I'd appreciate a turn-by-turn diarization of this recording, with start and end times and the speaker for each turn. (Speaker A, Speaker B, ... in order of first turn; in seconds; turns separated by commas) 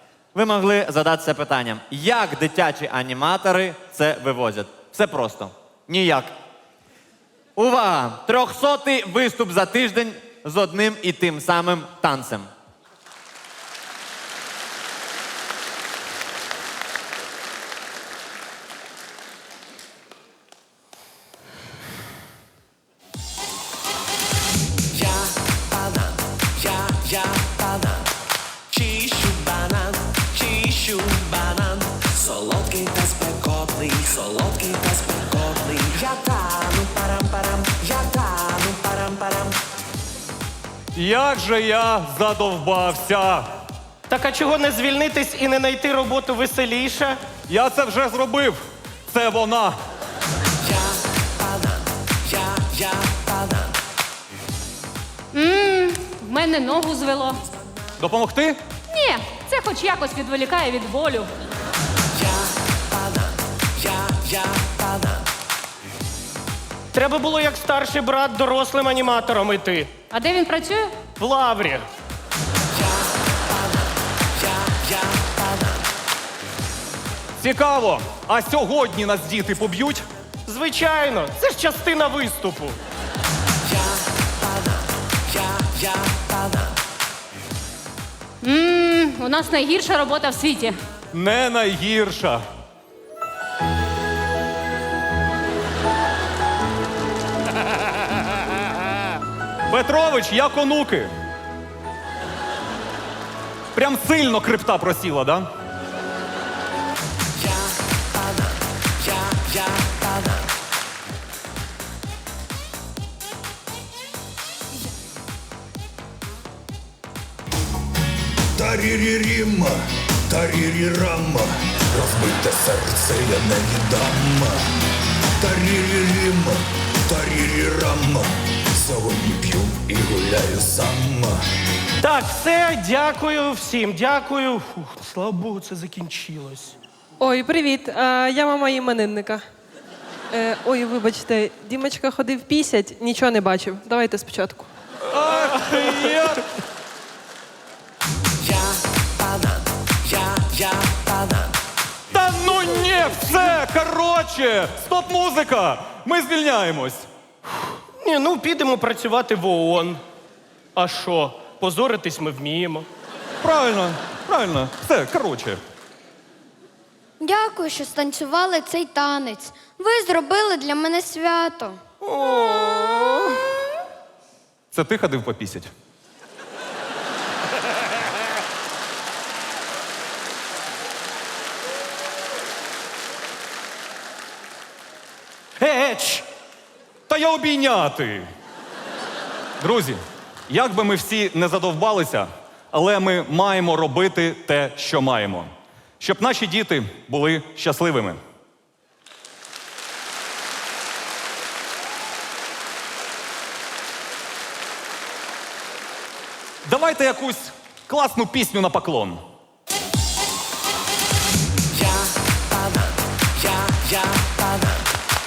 Speaker A: 0.3-6.3, Speaker A: 7.6-12.5, Speaker B: 24.9-28.1, Speaker B: 28.7-39.6, Speaker C: 41.0-43.5, Speaker D: 44.1-47.2, Speaker C: 47.5-49.8, Speaker B: 51.5-51.8, Speaker B: 52.3-53.6, Speaker E: 55.3-57.4, Speaker C: 58.0-58.6, Speaker E: 58.9-61.3, Speaker B: 62.2-62.5, Speaker B: 63.0-63.3, Speaker B: 63.8-65.2, Speaker D: 67.0-69.9, Speaker E: 70.1-71.0, Speaker D: 71.2-71.9, Speaker B: 74.4-75.5, Speaker C: 77.4-80.0, Speaker D: 80.5-82.8, Speaker B: 83.7-84.0, Speaker B: 84.5-86.7, Speaker E: 88.4-90.8, Speaker C: 91.1-92.4, Speaker C: 99.7-101.1, Speaker C: 103.7-105.5, Speaker B: 109.1-109.9, Speaker F: 118.6-124.6, Speaker F: 125.4-131.4, Speaker D: 132.0-136.8, Speaker G: 137.2-139.4, Speaker G: 140.3-144.7, Speaker C: 145.1-146.4, Speaker B: 148.4-151.5, Speaker C: 152.1-157.1, Speaker D: 158.0-160.0, Speaker D: 160.8-162.9, Speaker C: 163.4-165.6, Speaker H: 167.2-171.8, Speaker C: 172.1-173.2, Speaker C: 174.7-175.7, Speaker D: 185.6-186.2, Speaker C: 187.1-188.3, Speaker C: 189.6-198.2, Speaker C: 206.7-209.2, Speaker B: 211.7-214.9